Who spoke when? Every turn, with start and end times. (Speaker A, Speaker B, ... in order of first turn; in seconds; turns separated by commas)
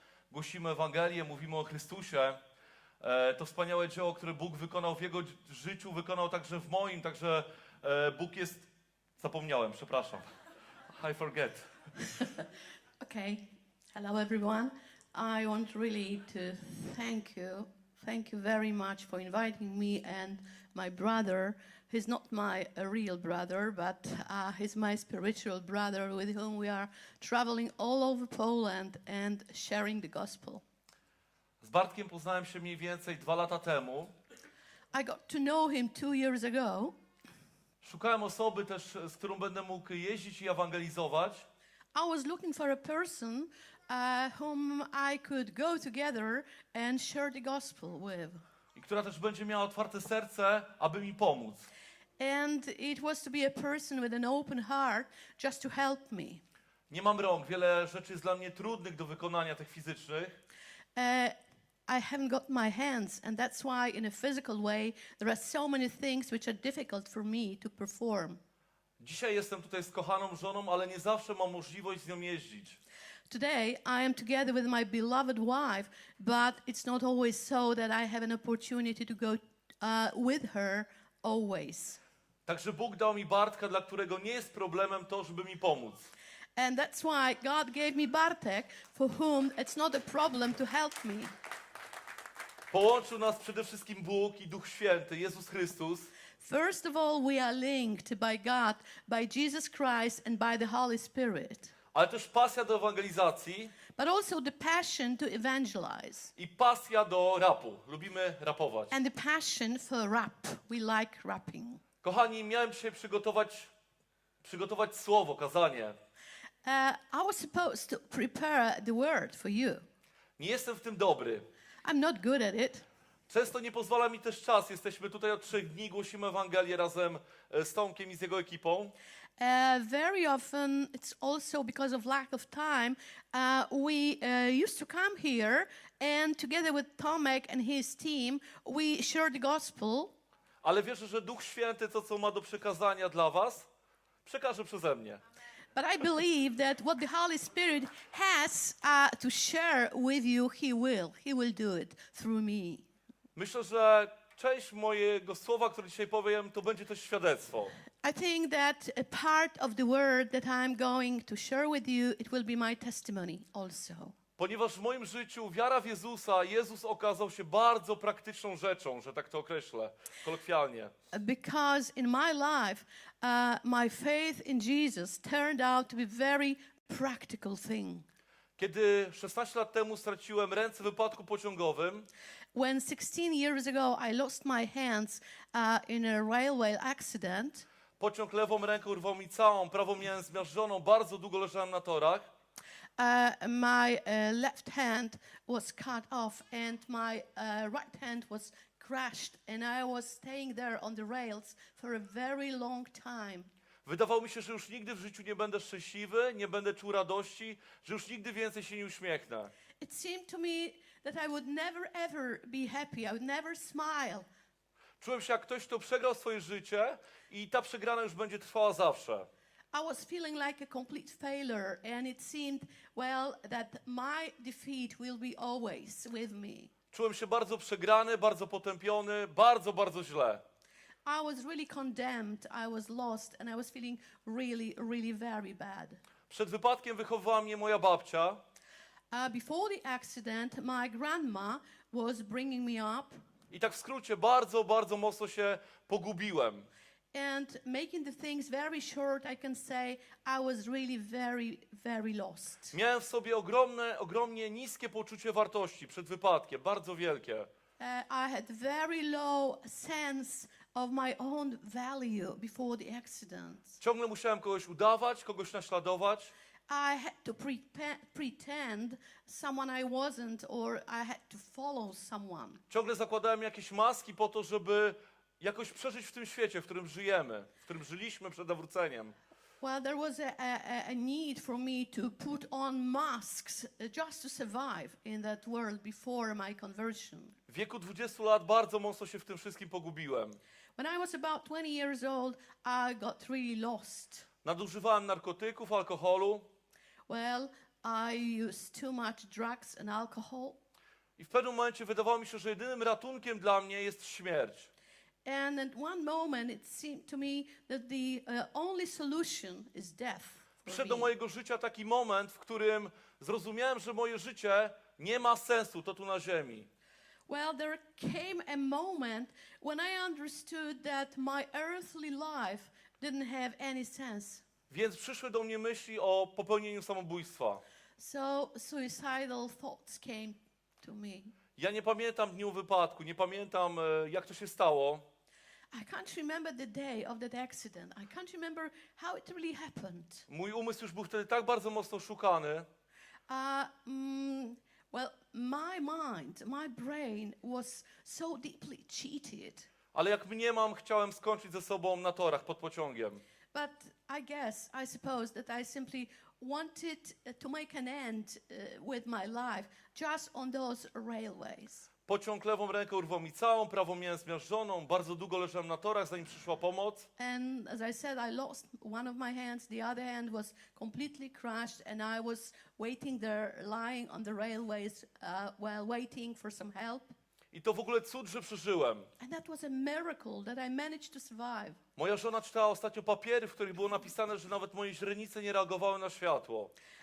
Speaker A: 0.3-2.4, Speaker A: 3.0-8.7, Speaker A: 9.2-10.3, Speaker A: 10.9-11.7, Speaker B: 13.0-30.6, Speaker A: 31.6-34.1, Speaker B: 34.9-36.9, Speaker A: 37.8-41.5, Speaker B: 42.0-48.4, Speaker A: 48.8-51.7, Speaker B: 52.2-56.4, Speaker A: 56.9-60.4, Speaker B: 61.0-61.3, Speaker B: 61.9-68.4, Speaker A: 69.0-72.8, Speaker B: 73.3-82.0, Speaker A: 82.5-86.1, Speaker B: 86.6-91.3, Speaker A: 92.7-96.1, Speaker B: 96.4-101.7, Speaker A: 101.9-103.8, Speaker B: 104.0-106.3, Speaker A: 106.4-108.9, Speaker B: 108.9-111.8, Speaker A: 112.0-113.7, Speaker A: 114.4-116.0, Speaker B: 116.7-119.8, Speaker A: 120.4-121.5, Speaker B: 121.8-122.8, Speaker A: 123.3-128.9, Speaker B: 129.4-140.1, Speaker A: 140.6-143.7, Speaker A: 144.2-145.2, Speaker B: 145.8-152.9, Speaker A: 153.4-157.8, Speaker B: 158.0-164.2, Speaker A: 164.4-170.9, Speaker B: 171.1-178.1, Speaker A: 178.6-182.1, Speaker B: 182.5-187.7, Speaker A: 188.0-192.3, Speaker B: 193.0-203.5, Speaker A: 203.8-209.5, Speaker B: 209.8-214.2, Speaker A: 215.0-219.3, Speaker B: 219.7-226.7, Speaker A: 226.9-230.4, Speaker B: 231.1-236.0, Speaker A: 236.3-238.4, Speaker B: 239.1-243.2, Speaker A: 243.5-246.7, Speaker B: 247.1-252.7, Speaker A: 252.7-257.5, Speaker B: 257.8-263.8, Speaker A: 263.8-266.3, Speaker B: 266.7-272.6, Speaker A: 272.7-279.1, Speaker B: 279.6-287.4, Speaker A: 287.5-290.4, Speaker B: 290.8-294.2, Speaker A: 294.4-296.5, Speaker B: 297.1-300.6, Speaker A: 301.2-304.7, Speaker B: 305.2-311.1, Speaker A: 310.7-316.7, Speaker B: 317.3-324.5, Speaker A: 324.7-327.6, Speaker B: 328.0-331.4, Speaker A: 331.6-335.1, Speaker B: 335.7-340.2, Speaker A: 340.3-342.7, Speaker B: 343.3-349.7, Speaker A: 349.9-353.2, Speaker B: 353.5-361.9, Speaker A: 362.1-367.1, Speaker B: 367.2-377.1, Speaker A: 377.5-379.1, Speaker B: 379.2-381.8, Speaker A: 382.0-386.7